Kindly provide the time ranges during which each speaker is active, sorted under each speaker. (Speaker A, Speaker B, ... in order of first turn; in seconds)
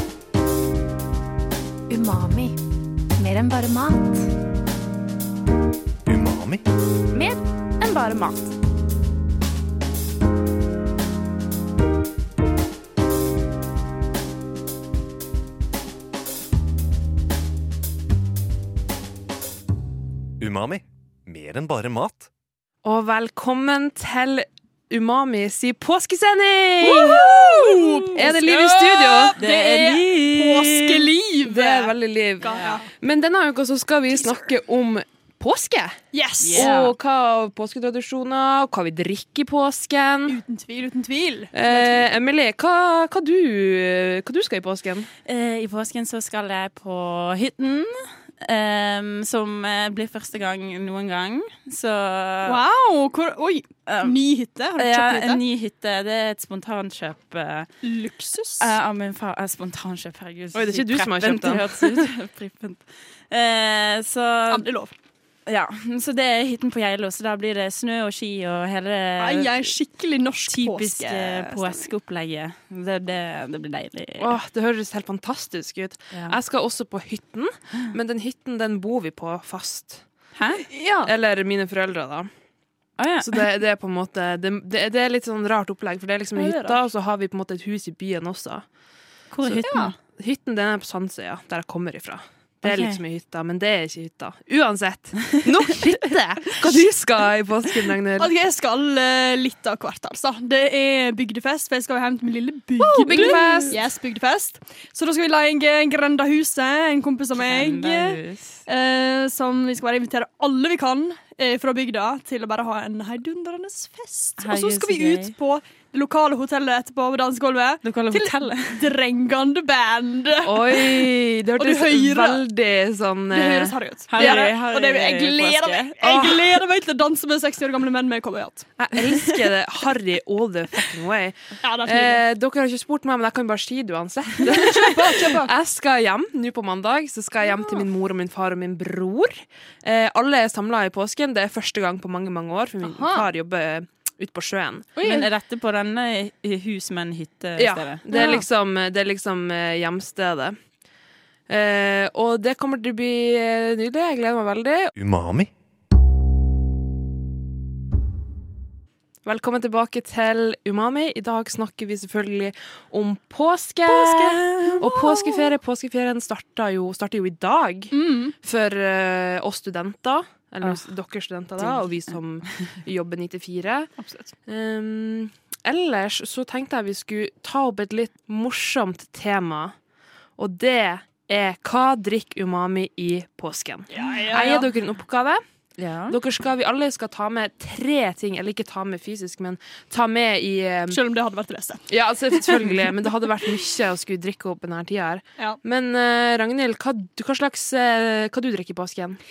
Speaker A: 1.9-2.5, 3.2-4.3, 7.1-8.5
Speaker B: 6.0-6.6, 20.4-22.3, 154.9-155.5
Speaker C: 22.8-27.3, 28.1-29.4, 31.4-36.0, 36.5-40.4, 41.5-45.1, 60.5-62.1, 74.2-80.0, 81.0-82.3, 83.2-88.7, 89.4-98.3, 102.8-103.8, 120.4-124.5, 126.0-126.4, 128.8-145.0, 147.6-150.6, 151.5-154.9, 159.2-173.9, 174.5-179.7, 180.4-185.4, 186.1-191.0, 191.9-199.2
Speaker D: 26.8-32.9, 36.1-36.7, 40.3-42.1, 52.4-55.4, 57.8-58.7, 64.5-64.9, 69.2-71.9, 80.7-81.1, 86.3-86.8, 89.6-89.9, 98.2-122.4, 123.3-128.7, 131.6-132.2, 134.4-135.5, 142.8-143.3, 144.9-145.3, 148.1-148.4, 164.5-165.5, 167.9-168.3, 174.0-174.3, 183.9-184.7, 190.9-192.7
Speaker E: 27.8-28.1, 29.4-31.1, 32.5-32.7, 36.4-36.9, 45.2-52.6, 53.9-54.2, 54.8-57.7, 58.6-64.7, 65.5-69.7, 70.5-74.3, 76.1-76.4, 80.3-80.7, 83.0-83.4, 89.3-89.9, 92.6-93.0, 103.1-103.7, 107.4-108.6, 114.4-115.3, 117.8-118.8, 124.1-126.2, 145.0-148.3, 163.9-164.8, 171.6-172.1, 185.8-186.2